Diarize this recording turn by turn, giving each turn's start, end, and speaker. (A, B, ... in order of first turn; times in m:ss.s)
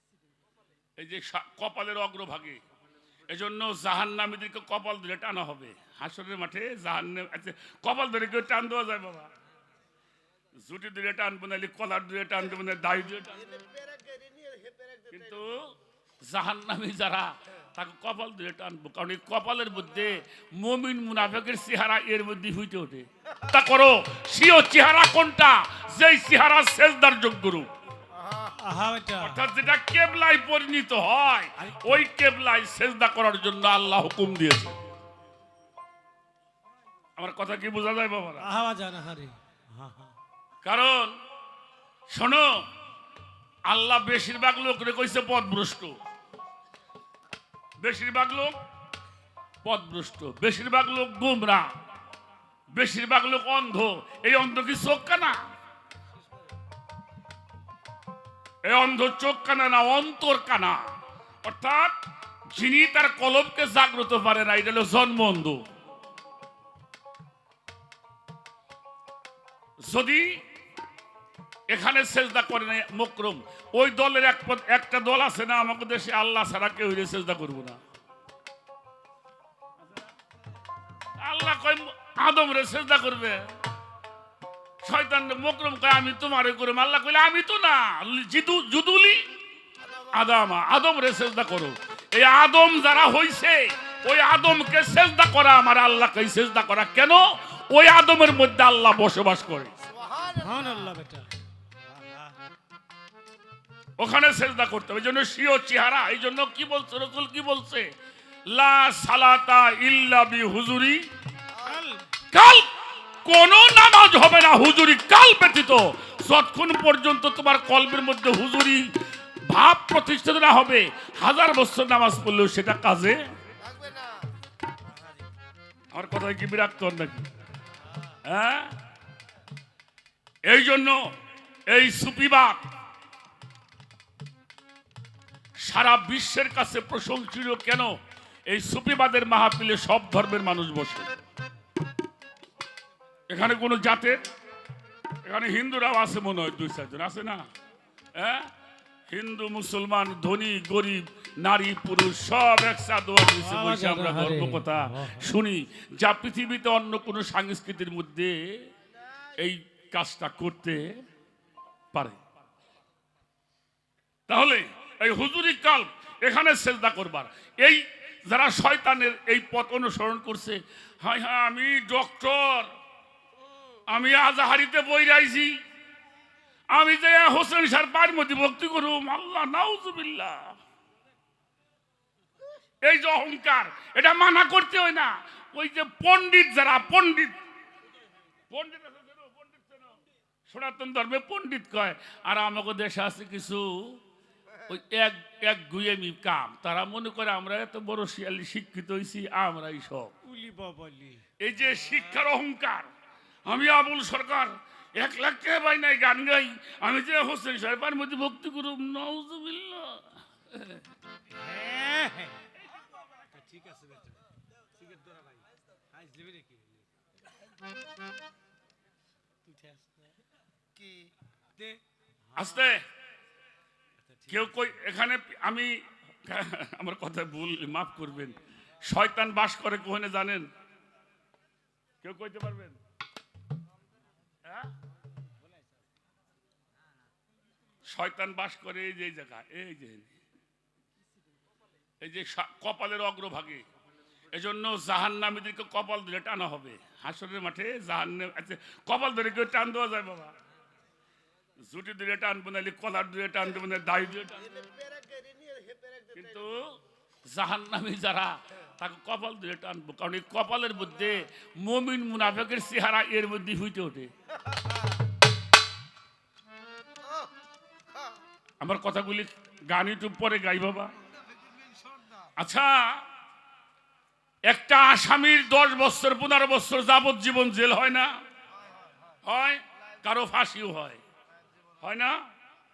0:01.0-0:02.6 A
0:03.3-0:09.3 A
0:10.6-0:13.4 A
0:13.3-0:15.5 B
0:15.1-0:27.7 A
0:28.1-0:28.5 B
0:28.5-0:29.4 C
0:29.2-0:34.7 A
0:31.6-0:32.0 C
0:37.2-0:38.5 A
0:38.4-0:40.2 C
0:40.6-0:41.2 A
0:42.1-0:42.6 A
0:43.6-0:45.9 A
0:47.8-0:48.5 A
0:49.6-0:51.7 A
0:52.7-0:55.4 A
0:58.6-1:00.8 A
1:01.4-1:01.9 A
1:02.5-1:05.6 A
1:09.8-1:10.4 A
1:11.7-1:17.8 A
1:21.2-1:23.5 A
1:24.8-1:29.3 A
1:29.8-1:30.2 B
1:30.1-1:39.7 A
1:39.8-1:40.8 B
1:40.4-1:42.4 C
1:44.0-1:47.9 A
1:48.5-1:51.1 A
1:51.6-1:52.1 C
1:52.3-2:03.2 A
2:03.6-2:04.3 B
2:05.9-2:07.3 A
2:08.2-2:08.7 A
2:10.4-2:11.1 A
2:11.7-2:12.6 A
2:15.6-2:21.1 A
2:23.3-2:24.2 A
2:25.2-2:27.4 A
2:28.1-2:28.5 A
2:29.1-2:38.6 A
2:33.3-2:35.3 C
2:39.4-2:41.0 A
2:41.9-2:42.2 A
2:44.3-2:52.7 A
2:53.9-2:55.6 A
2:56.7-3:00.6 A
3:02.8-3:07.4 A
3:08.5-3:14.0 A
3:14.7-3:20.1 A
3:20.2-3:21.2 C
3:21.4-3:22.9 A
3:23.4-3:30.8 A
3:31.3-3:32.5 C
3:33.3-3:34.2 C
3:34.8-3:36.9 C
3:39.4-3:40.1 C
3:40.7-3:41.1 B
3:41.5-3:42.7 C
3:42.3-3:42.8 A
3:44.0-3:44.7 C
3:44.3-3:50.5 A
3:52.0-3:52.8 A
3:54.4-3:54.7 A
3:57.9-4:00.1 A
4:02.0-4:03.6 A
4:04.3-4:10.3 A
4:11.6-4:14.4 A
4:14.4-4:16.6 B
4:16.1-4:24.1 A
4:28.6-4:30.9 A
4:31.4-4:32.3 B
4:32.4-4:33.0 A
4:34.4-4:38.2 A
4:38.5-4:39.2 B
4:39.2-4:41.0 A
4:41.4-4:41.7 B
4:41.8-4:42.2 A